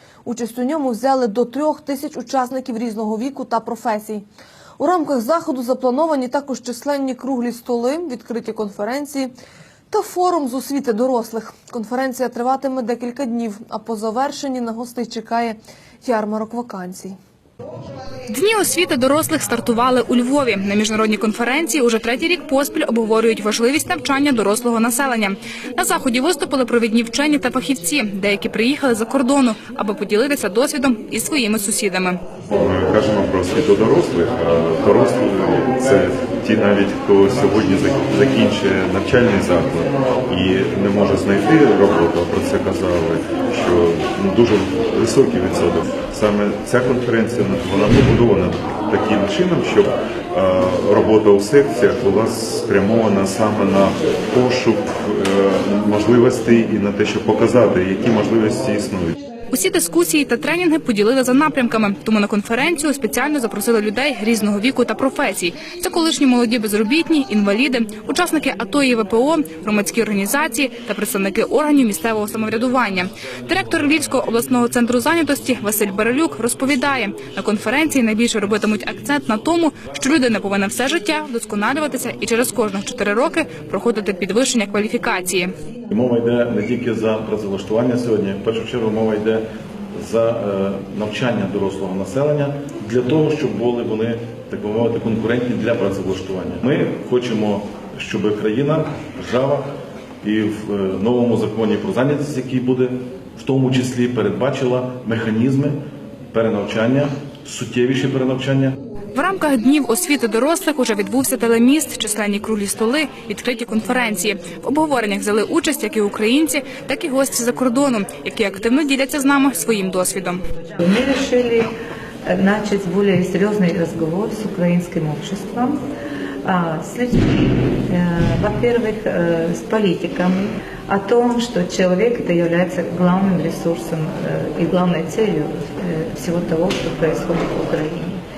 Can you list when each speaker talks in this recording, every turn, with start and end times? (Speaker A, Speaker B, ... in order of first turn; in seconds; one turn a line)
Speaker A: 0.2-4.2
Speaker A: 4.8-9.3
Speaker A: 9.9-17.2
Speaker B: 18.3-32.2
Speaker C: 32.5-59.2
Speaker B: 59.5-85.5
Speaker D: 85.9-99.7
Speaker D: 100.2-105.8
Speaker D: 106.3-108.8
Speaker B: 109.1-120.4
Speaker E: 120.8-121.7
Speaker E: 122.3-125.8
Speaker E: 126.4-138.2